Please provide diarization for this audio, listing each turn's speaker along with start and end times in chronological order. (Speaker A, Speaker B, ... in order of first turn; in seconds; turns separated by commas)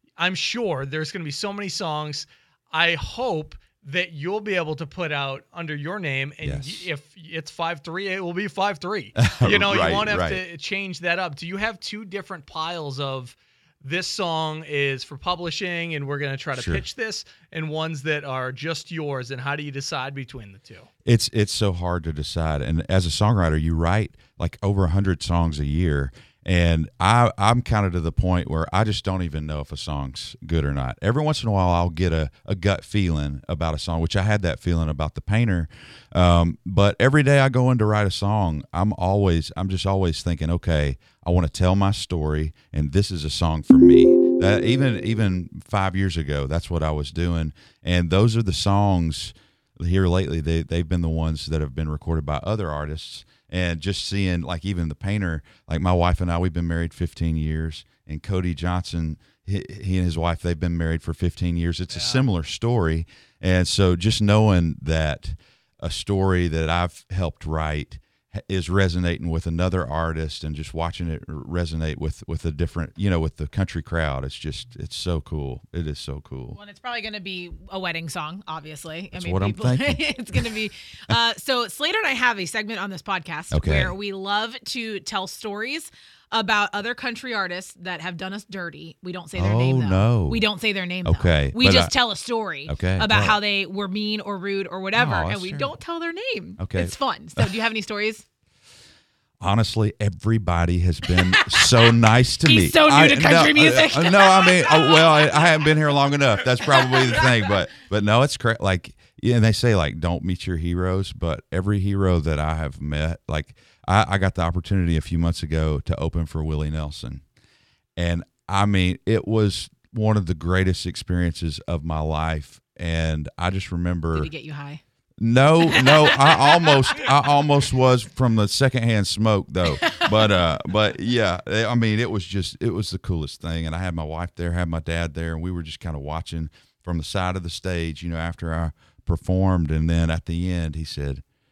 Speaker A: 0.2-20.9, Speaker B: 6.4-6.9, Speaker B: 9.2-10.4, Speaker B: 16.6-16.8, Speaker B: 21.0-76.6, Speaker A: 61.9-62.2, Speaker C: 76.5-98.2, Speaker B: 79.1-80.5, Speaker B: 83.5-83.9, Speaker B: 89.3-90.4, Speaker B: 91.0-91.9, Speaker B: 92.7-93.4, Speaker B: 94.9-95.7, Speaker B: 96.6-97.5, Speaker B: 99.4-117.2, Speaker C: 101.1-101.7, Speaker C: 102.4-105.2, Speaker B: 118.0-124.3, Speaker C: 124.1-124.8, Speaker B: 125.2-141.2, Speaker C: 125.7-126.7, Speaker C: 129.7-130.2